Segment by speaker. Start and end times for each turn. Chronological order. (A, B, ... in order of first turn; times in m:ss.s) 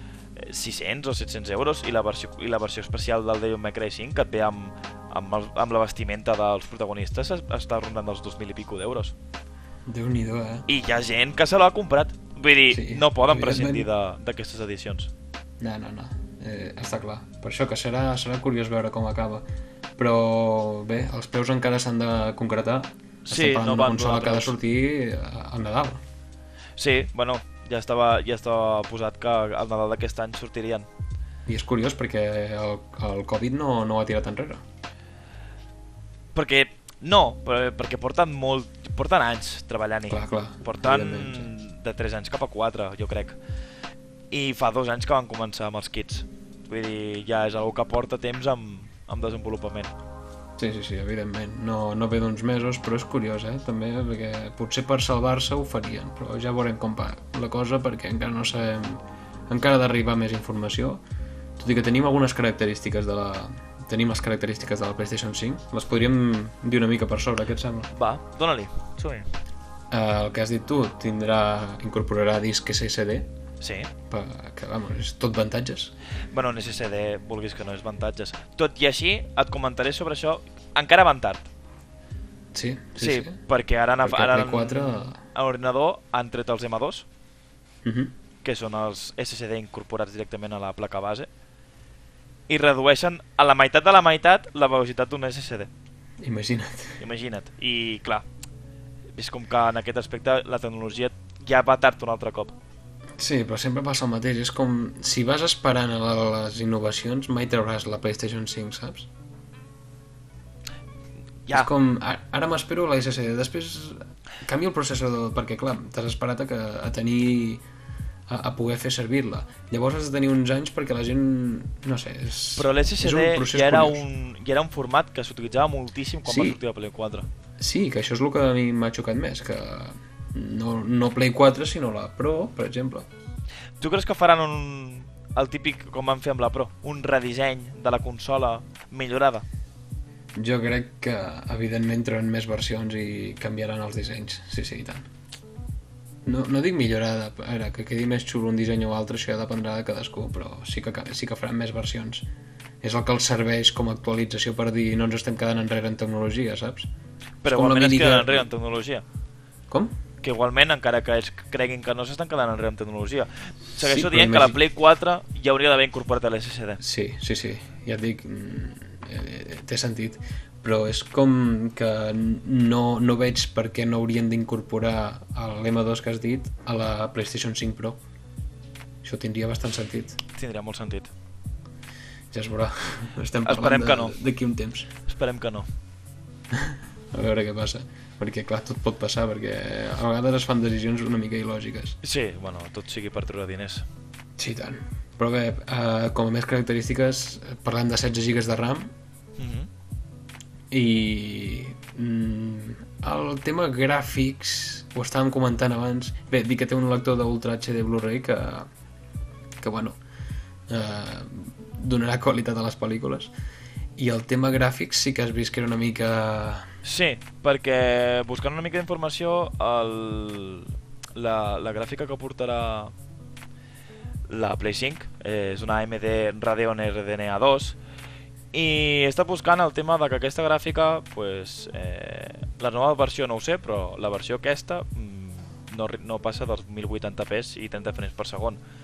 0:00.4-0:09.1 A
0:09.9-0:10.7 B
0:10.7-0:15.1 A
0:12.7-0:13.9 B
0:15.6-0:19.4 B
0:20.0-0:26.0 B
0:23.3-0:24.6 A
0:26.8-0:30.9 A
0:31.5-0:34.6 B
0:36.4-0:43.4 A
0:40.1-0:41.5 B
0:44.3-0:49.9 A
0:50.6-1:01.0 B
1:01.6-1:07.9 B
1:07.9-1:09.3 A
1:09.9-1:13.3 B
1:13.6-1:13.9 A
1:14.1-1:15.9 B
1:16.3-1:21.5 A
1:22.5-1:23.4 B
1:23.0-1:27.1 A
1:24.0-1:25.2 B
1:27.8-1:28.1 B
1:28.4-1:31.3 A
1:32.5-1:35.7 A
1:36.2-1:37.0 B
1:37.0-1:38.2 A
1:39.2-1:42.6 A
1:43.2-1:49.1 B
1:51.5-1:57.6 B
1:58.3-2:04.0 B
2:02.6-2:07.3 A
2:06.3-2:06.6 B
2:07.6-2:13.1 B
2:13.8-2:19.4 A
2:20.4-2:25.1 B
2:26.2-2:32.3 B
2:32.8-2:36.9 B
2:37.4-2:39.0 A
2:37.5-2:38.5 B
2:39.7-2:39.9 B
2:40.2-2:46.8 A
2:43.8-2:44.6 B
2:46.8-2:58.0 B
2:59.0-3:00.2 B
3:00.4-3:01.1 A
3:02.3-3:04.9 B
3:03.4-3:04.2 A
3:05.0-3:05.7 A
3:06.5-3:12.0 B
3:12.0-3:13.9 A
3:14.4-3:18.9 B
3:19.4-3:19.7 A
3:20.7-3:28.7 B
3:29.6-3:30.0 B
3:30.7-3:33.3 B
3:34.0-3:36.7 B
3:36.8-3:42.9 A
3:44.3-3:47.8 A
3:48.5-3:58.6 A